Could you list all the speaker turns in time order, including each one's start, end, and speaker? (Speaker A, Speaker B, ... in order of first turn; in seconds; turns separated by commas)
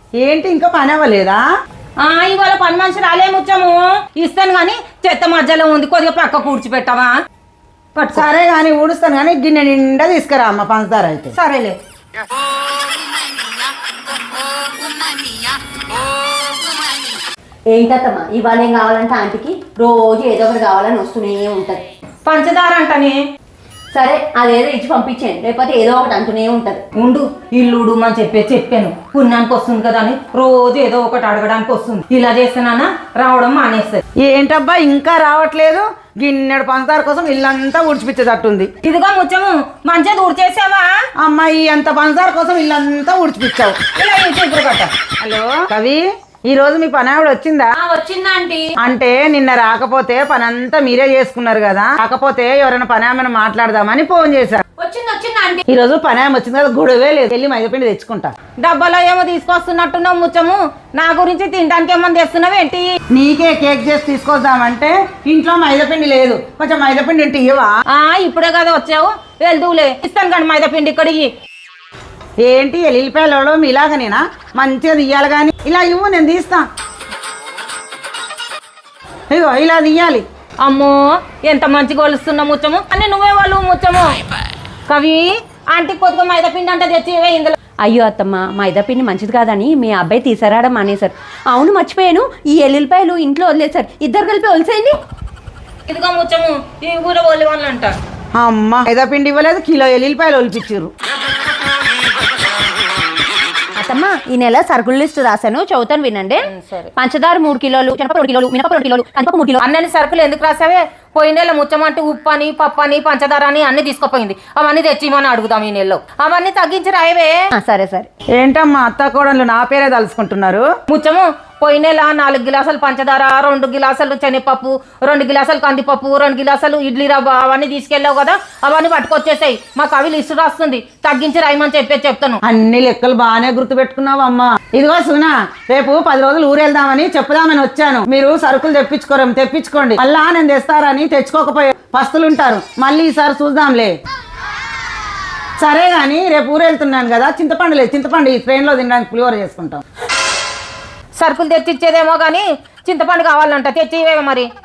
Speaker A: 0.2-1.4, Speaker B: 2.0-7.2, Speaker B: 8.0-8.3, Speaker A: 8.1-11.3, Speaker B: 11.3-11.8, Speaker C: 17.7-21.9, Speaker B: 22.3-23.2, Speaker C: 23.9-26.8, Speaker B: 27.0-34.0, Speaker A: 34.2-38.7, Speaker B: 38.8-40.9, Speaker A: 41.2-43.8, Speaker B: 44.0-44.9, Speaker A: 45.2-47.8, Speaker C: 47.8-48.7, Speaker A: 48.8-54.6, Speaker C: 54.8-55.6, Speaker A: 55.7-58.3, Speaker B: 58.6-62.9, Speaker A: 63.1-67.7, Speaker B: 67.9-71.3, Speaker A: 72.4-76.7, Speaker A: 79.3-80.2, Speaker B: 80.6-84.2, Speaker B: 84.9-87.6, Speaker C: 87.8-95.0, Speaker B: 95.9-98.0, Speaker A: 98.3-100.9, Speaker C: 103.8-109.6, Speaker B: 106.5-106.9, Speaker B: 109.6-117.5, Speaker C: 117.5-118.1, Speaker A: 118.3-120.7, Speaker B: 120.9-132.4, Speaker A: 132.4-144.0, Speaker A: 145.6-149.8, Speaker B: 151.2-154.5